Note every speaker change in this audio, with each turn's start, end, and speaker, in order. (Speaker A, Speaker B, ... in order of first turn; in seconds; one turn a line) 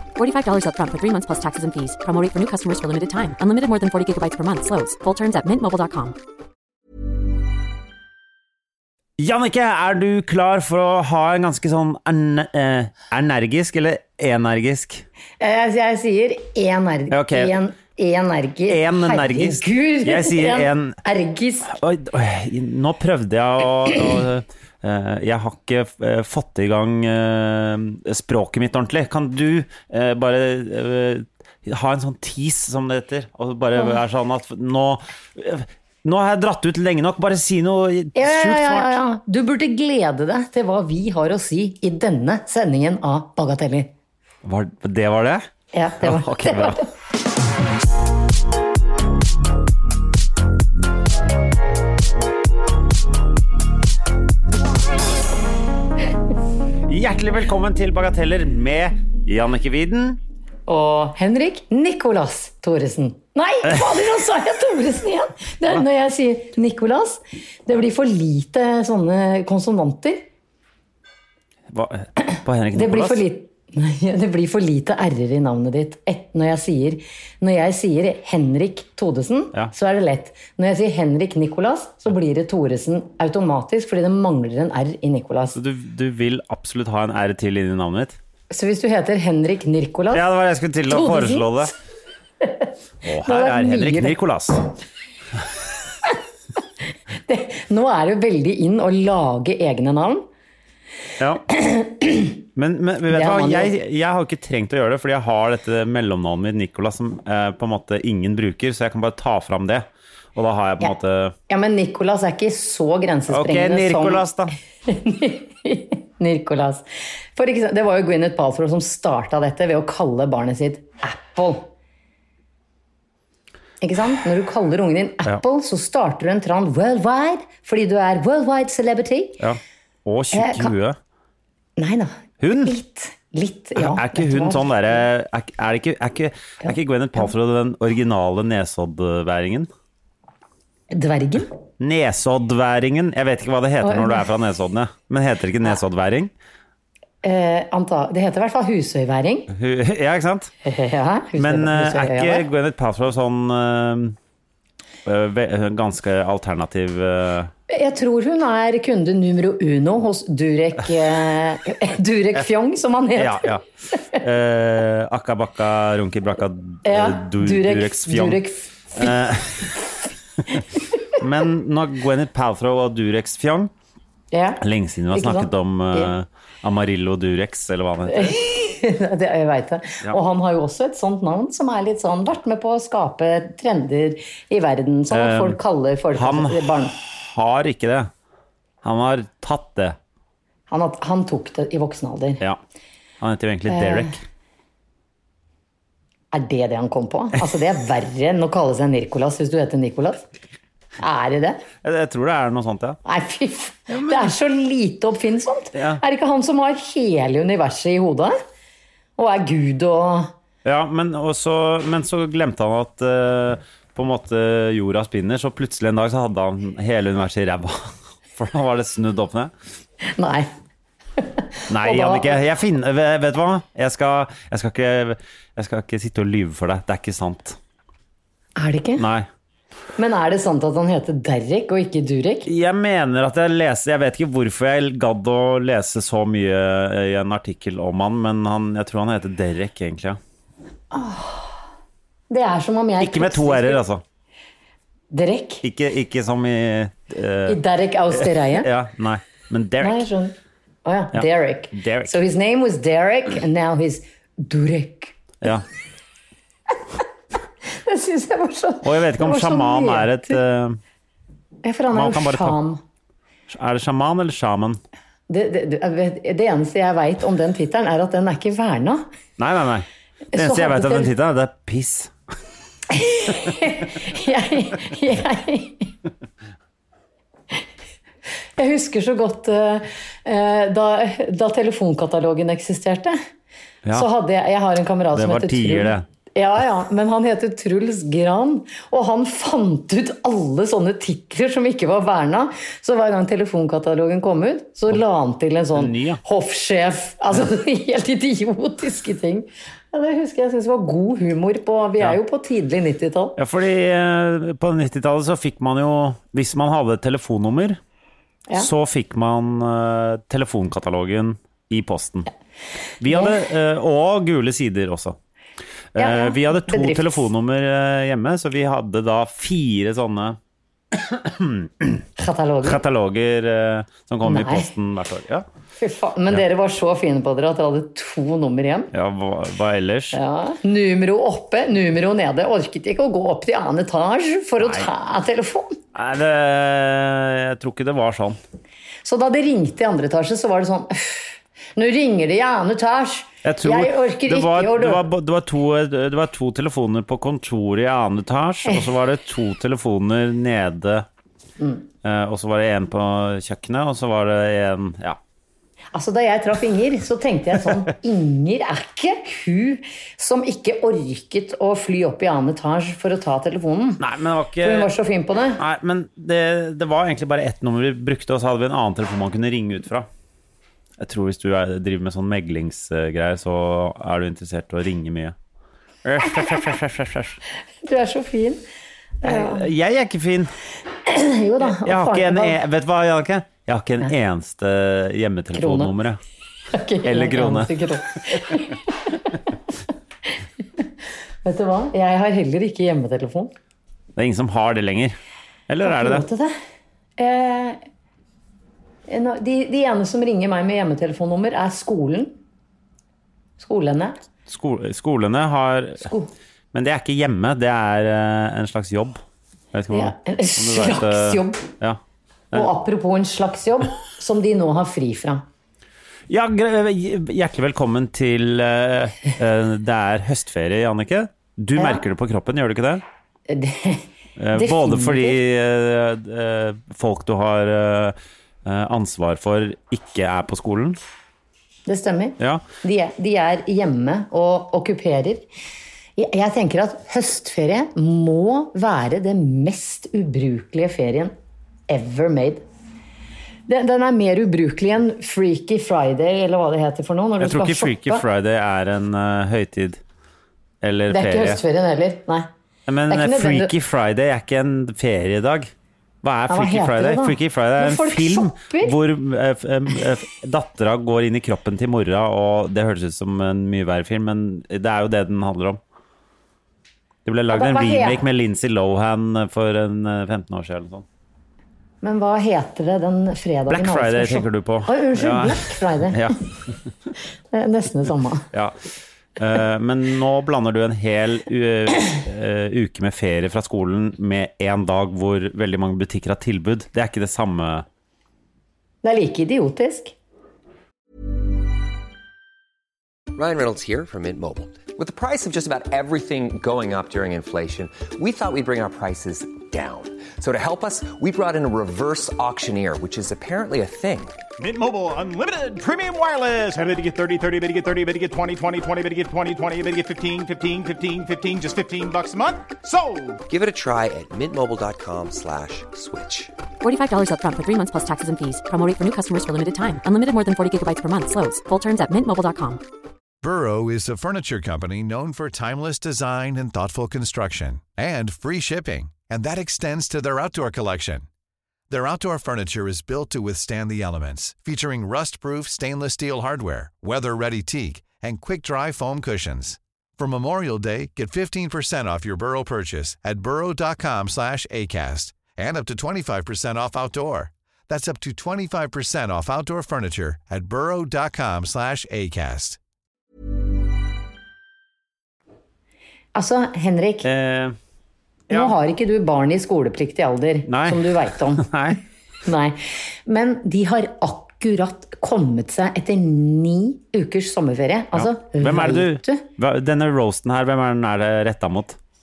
Speaker A: 0.2-6.1
Speaker B: 9.2-15.0
Speaker C: 15.4-21.8
Speaker B: 17.1-17.6
Speaker B: 18.7-21.0
Speaker B: 21.6-39.0
Speaker C: 38.1-43.9
Speaker B: 44.4-46.8
Speaker C: 45.7-46.8
Speaker B: 56.8-60.2
Speaker C: 60.7-70.2
Speaker B: 71.7-73.2
Speaker C: 72.7-85.6
Speaker B: 85.5-88.2
Speaker C: 88.5-90.2
Speaker B: 90.1-91.7
Speaker C: 90.9-91.7
Speaker C: 92.4-92.7
Speaker B: 93.0-94.7
Speaker C: 93.2-94.2
Speaker C: 97.3-100.2
Speaker B: 101.2-101.5
Speaker C: 101.5-102.3
Speaker B: 102.5-111.3
Speaker C: 103.1-103.7
Speaker C: 111.5-114.2
Speaker B: 113.3-114.5
Speaker C: 114.9-121.7
Speaker C: 123.8-129.4
Speaker B: 129.4-131.0
Speaker C: 130.3-130.7
Speaker C: 131.8-135.0
Speaker B: 132.4-132.7
Speaker B: 133.7-139.7
Speaker C: 140.9-141.5
Speaker B: 141.8-146.3
Speaker C: 143.8-144.2
Speaker C: 147.2-149.5
Speaker B: 149.5-150.5
Speaker C: 150.6-152.5
Speaker B: 151.4-154.2
Speaker B: 155.0-157.5
Speaker C: 157.7-163.6
Speaker B: 163.2-163.6
Speaker B: 164.2-169.7
Speaker C: 166.8-169.2
Speaker B: 171.1-173.7
Speaker C: 174.3-176.1
Speaker B: 174.6-178.4
Speaker C: 178.1-186.9
Speaker B: 185.1-185.6
Speaker B: 186.1-188.1
Speaker B: 188.8-190.0
Speaker C: 190.7-192.4
Speaker B: 193.2-194.2
Speaker C: 193.7-194.1
Speaker C: 196.3-200.2
Speaker C: 201.0-201.6
Speaker B: 201.8-203.0
Speaker C: 203.0-208.3
Speaker B: 203.9-204.3
Speaker B: 205.7-206.0
Speaker C: 209.2-210.3
Speaker B: 210.6-219.5
Speaker C: 220.1-220.5
Speaker C: 221.2-222.4
Speaker B: 221.7-227.6
Speaker C: 228.6-229.1
Speaker B: 229.0-229.3
Speaker C: 229.9-232.5
Speaker B: 232.4-240.2
Speaker C: 240.9-241.6
Speaker C: 242.3-243.8
Speaker B: 243.0-244.0
Speaker C: 245.1-245.6
Speaker B: 245.6-250.1
Speaker C: 247.5-248.7
Speaker C: 249.8-255.2
Speaker B: 251.1-252.1
Speaker C: 257.7-260.4
Speaker B: 258.8-260.8
Speaker C: 261.6-262.8
Speaker B: 261.9-262.6
Speaker B: 263.5-264.8
Speaker C: 265.3-269.0
Speaker B: 269.4-272.1
Speaker C: 270.3-271.1
Speaker C: 272.9-275.9
Speaker C: 278.6-283.2
Speaker C: 283.9-303.4
Speaker B: 285.1-286.1
Speaker B: 295.7-296.2
Speaker B: 303.4-307.8
Speaker B: 308.5-312.3
Speaker B: 313.0-315.2
Speaker C: 313.1-313.4
Speaker B: 315.9-320.4
Speaker C: 316.0-317.3
Speaker B: 320.9-322.0
Speaker C: 322.2-322.8
Speaker B: 322.6-325.4
Speaker C: 324.2-324.7
Speaker C: 325.8-328.9
Speaker B: 328.9-330.2
Speaker C: 330.1-335.8
Speaker B: 334.6-334.9
Speaker B: 335.9-338.4
Speaker C: 339.0-345.0
Speaker B: 343.4-351.1
Speaker C: 351.6-351.9
Speaker B: 352.0-355.2
Speaker C: 355.9-364.0
Speaker B: 364.0-364.9
Speaker C: 364.6-365.6
Speaker B: 365.6-370.1
Speaker B: 371.0-375.3
Speaker B: 376.0-377.4
Speaker C: 377.8-378.6
Speaker C: 379.2-379.7
Speaker B: 379.2-380.5
Speaker C: 381.1-382.6
Speaker B: 381.6-386.2
Speaker C: 385.5-385.9
Speaker C: 386.7-389.4
Speaker B: 387.0-387.7
Speaker C: 391.4-393.5
Speaker B: 394.1-395.2
Speaker B: 395.7-396.2
Speaker C: 395.8-396.5
Speaker C: 397.2-397.8
Speaker C: 399.1-402.3
Speaker C: 403.6-404.2
Speaker B: 404.5-406.1
Speaker C: 406.0-406.3
Speaker B: 406.7-409.2
Speaker B: 409.7-412.0
Speaker C: 409.9-411.7
Speaker C: 412.5-415.4
Speaker B: 416.3-423.0
Speaker C: 421.8-422.0
Speaker C: 423.5-425.4
Speaker B: 424.4-431.0
Speaker C: 431.9-435.4
Speaker B: 432.4-432.6
Speaker C: 436.1-441.3
Speaker C: 441.9-442.6
Speaker C: 443.7-448.2
Speaker B: 447.4-450.0
Speaker B: 450.8-451.6
Speaker C: 451.1-452.5
Speaker B: 452.9-455.7
Speaker C: 453.1-453.7
Speaker B: 456.2-465.8
Speaker C: 456.5-458.9
Speaker B: 467.2-471.0
Speaker C: 467.5-468.2
Speaker C: 472.0-476.4
Speaker B: 473.7-476.4
Speaker C: 477.5-478.5
Speaker B: 478.5-478.8
Speaker B: 479.4-487.9
Speaker C: 489.0-490.1
Speaker D: 493.3-504.4
Speaker E: 504.6-513.4
Speaker D: 513.5-516.5
Speaker A: 516.8-522.8
Speaker F: 523.4-531.3
Speaker F: 531.9-552.8
Speaker C: 556.3-557.3
Speaker B: 557.2-557.8
Speaker B: 558.5-558.7
Speaker C: 558.5-561.7
Speaker B: 560.7-562.0
Speaker C: 562.4-569.4
Speaker B: 568.1-572.0